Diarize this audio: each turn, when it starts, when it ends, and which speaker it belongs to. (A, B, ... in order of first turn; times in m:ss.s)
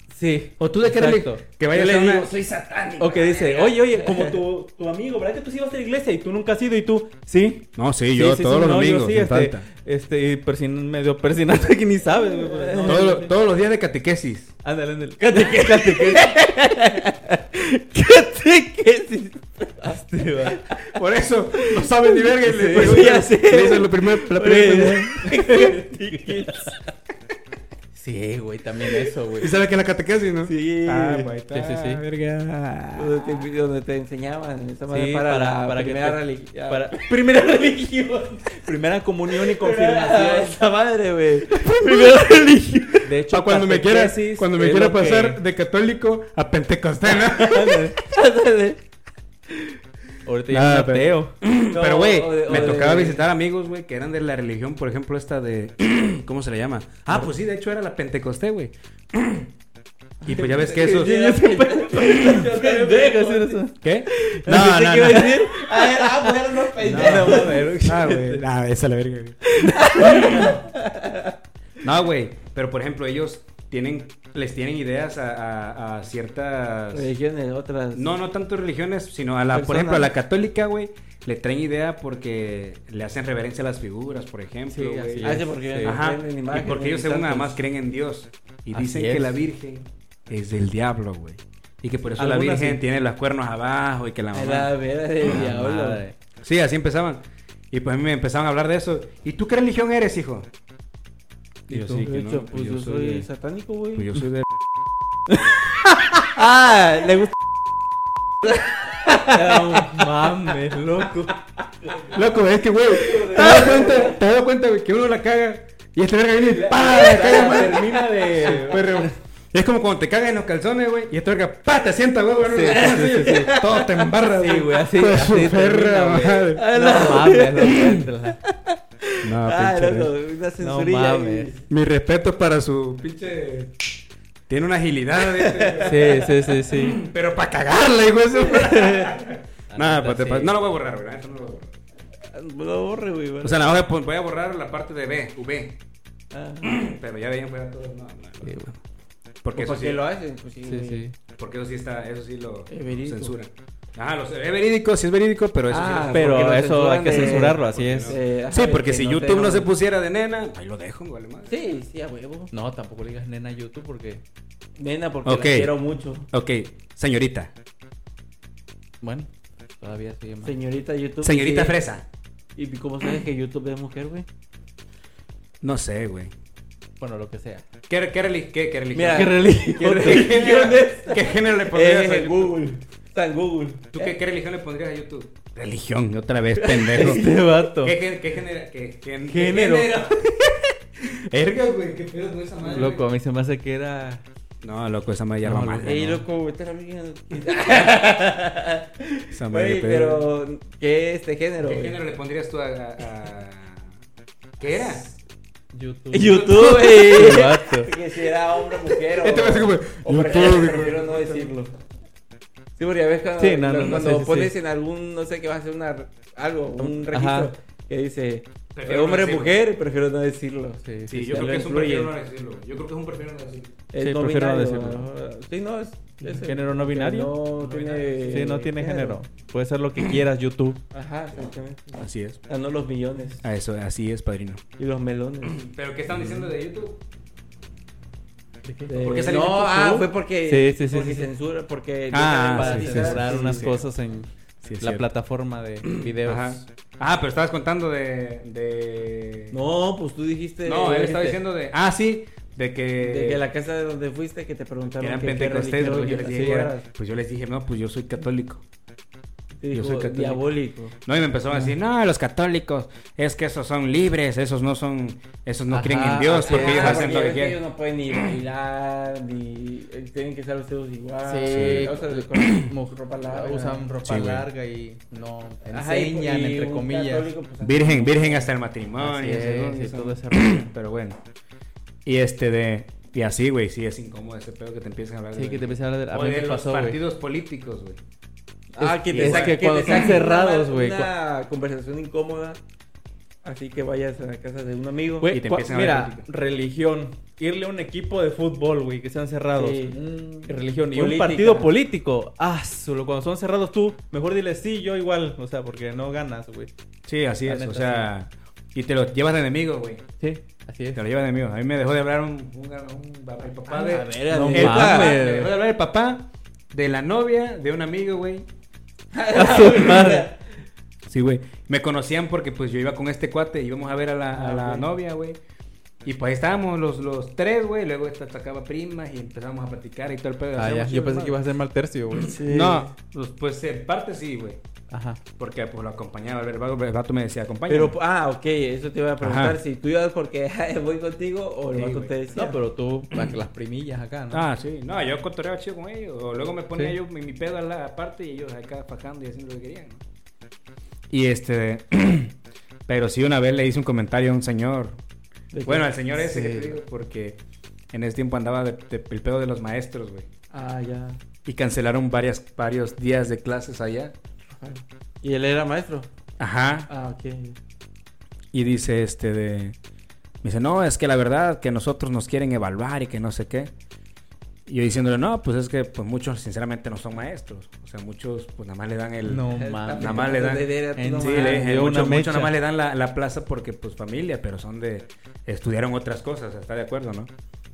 0:00.1-0:02.1 A
0:00.6-0:03.0 B
0:01.8-0:04.4 C
0:03.0-0:13.3 A
0:07.8-0:09.6 B
0:12.4-0:13.0 C
0:12.8-0:14.5 B
0:14.6-0:16.3 A
0:15.2-0:20.9 C
0:19.8-0:20.6 A
0:20.8-0:25.2 B
0:21.6-0:26.9 C
0:22.5-0:23.0 A
0:25.2-0:26.7 A
0:27.9-0:29.5 A
0:29.4-0:33.3 B
0:30.4-0:31.3 C
0:31.5-0:32.0 A
0:32.9-0:37.0 C
0:34.9-0:40.6 A
0:39.3-0:43.1 C
0:41.7-0:42.0 A
0:43.0-0:45.4 A
0:43.3-0:47.8 B
0:47.3-0:48.8 C
0:47.4-0:48.0 A
0:50.2-0:51.4 A
0:50.5-0:59.5 B
0:51.7-0:53.2 C
1:00.2-1:01.3 B
1:00.3-1:03.6 C
1:00.8-1:08.4 A
1:03.8-1:05.3 B
1:04.4-1:07.9 C
1:06.8-1:10.6 B
1:09.6-1:10.5 A
1:09.6-1:11.3 C
1:11.8-1:17.1 B
1:16.9-1:18.1 C
1:17.9-1:34.7 B
1:19.5-1:20.1 C
1:24.7-1:26.0 A
1:25.2-1:27.6 C
1:28.7-1:29.4 A
1:32.2-1:32.8 A
1:34.3-1:36.0 C
1:35.2-1:36.1 A
1:36.4-1:40.5 B
1:41.7-1:42.1 A
1:41.7-1:43.2 B
1:42.0-1:44.2 C
1:43.9-1:44.5 B
1:46.3-1:47.3 C
1:49.1-1:50.3 C
1:49.1-1:51.4 A
1:52.1-2:06.6 B
1:53.0-1:54.1 C
1:53.1-1:54.0 A
1:56.5-1:59.1 A
1:56.7-1:58.0 C
2:02.4-2:03.5 A
2:02.6-2:04.1 C
2:04.3-2:08.4 A
2:06.4-2:11.6 C
2:07.7-2:08.0 B
2:09.2-2:10.1 B
2:10.6-2:11.6 A
2:11.7-2:13.9 B
2:14.5-2:21.7 B
2:15.4-2:16.3 C
2:15.8-2:17.0 A
2:18.5-2:19.2 C
2:19.7-2:20.5 A
2:22.3-2:23.6 C
2:23.4-2:25.8 B
2:26.3-2:26.7 C
2:26.6-2:28.8 B
2:28.4-2:28.7 A
2:29.4-2:30.0 B
2:29.5-2:31.0 C
2:30.6-2:31.1 A
2:31.3-2:41.5 B
2:32.7-2:33.3 C
2:35.7-2:39.7 C
2:36.1-2:38.2 A
2:41.5-2:42.5 C
2:42.5-2:44.2 A
2:44.8-2:46.3 C
2:45.2-2:45.7 B
2:46.3-2:47.5 B
2:49.0-2:50.5 A
2:50.4-2:51.8 C
2:51.2-2:52.0 B
2:52.6-2:54.2 C
2:55.6-2:56.3 B
2:57.0-2:57.6 A
2:57.9-3:02.6 B
2:58.9-3:04.1 C
2:59.1-3:00.3 A
3:03.9-3:07.3 B
3:06.6-3:07.5 C
3:06.9-3:07.9 A
3:07.8-3:10.1 B
3:09.3-3:09.9 A
3:09.4-3:10.1 C
3:11.0-3:13.0 B
3:12.7-3:14.2 A
3:14.6-3:16.2 B
3:15.4-3:16.2 A
3:15.8-3:22.0 C
3:19.3-3:20.2 B
3:21.6-3:23.9 B
3:24.6-3:25.1 B
3:25.7-3:27.9 A
3:26.1-3:31.7 C
3:29.1-3:31.5 B
3:32.8-3:42.1 C
3:33.4-3:34.5 A
3:36.8-3:37.5 A
3:38.7-3:39.6 B
3:40.8-3:41.5 A
3:41.1-3:43.8 B
3:43.9-3:49.2 C
3:44.0-3:45.1 A
3:46.2-3:50.8 A
3:50.9-3:53.4 C
3:52.0-3:52.4 B
3:53.4-3:54.6 B
3:54.8-3:55.6 C
3:55.6-3:57.0 B
3:58.6-3:59.0 A
3:58.9-4:03.7 C
3:59.0-4:00.0 B
4:00.5-4:01.3 A
4:02.1-4:03.8 B
4:02.5-4:06.7 A
4:04.6-4:05.1 B
4:05.8-4:09.6 B
4:09.5-4:11.4 C
4:10.6-4:13.4 B
4:13.0-4:16.8 C
4:15.0-4:18.6 B
4:15.9-4:16.7 A
4:19.6-4:20.9 C
4:19.7-4:20.4 B
4:21.0-4:27.6 B
4:25.7-4:27.1 A
4:26.3-4:33.9 C
4:31.2-4:37.3 A
4:31.5-4:31.9 B
4:34.0-4:34.5 B
4:35.7-4:38.5 C
4:37.6-4:41.2 B
4:39.0-4:40.7 A
4:42.0-4:48.0 B
4:45.3-4:47.0 A
4:48.8-4:51.1 A
4:48.8-4:52.6 C
4:49.1-4:50.1 B
4:53.4-4:55.3 C
4:55.2-5:06.7 A
4:55.3-4:56.2 B
4:59.6-5:00.0 C
5:00.9-5:01.7 C
5:07.0-5:10.0 B
5:07.4-5:08.1 A
5:10.2-5:11.0 A
5:10.9-5:18.5 B
5:13.7-5:15.2 C
5:14.0-5:15.5 A
5:19.1-5:20.4 C
5:19.3-5:20.3 A
5:21.1-5:25.4 B
5:24.3-5:24.9 C
5:26.0-5:31.4 B
5:30.6-5:32.4 A
5:32.2-5:32.9 C
5:32.4-5:34.6 B
5:34.9-5:35.2 A
5:35.4-5:38.0 B
5:37.7-5:42.6 C
5:39.2-5:39.6 B
5:41.7-5:42.1 B
5:42.3-5:44.4 A
5:44.3-5:50.0 B
5:51.1-5:52.4 B
5:52.9-5:55.0 B
5:55.5-5:55.9 C
5:55.6-5:57.4 B
5:56.2-5:56.7 A
5:57.9-6:00.3 B
6:00.5-6:01.2 C
6:01.4-6:04.1 B
6:04.5-6:06.1 C
6:06.4-6:06.9 B
6:06.9-6:07.6 C
6:08.5-6:09.8 B
6:10.4-6:13.7 B
6:14.7-6:27.3 B
6:19.2-6:20.3 A
6:19.5-6:21.8 C
6:21.0-6:22.5 A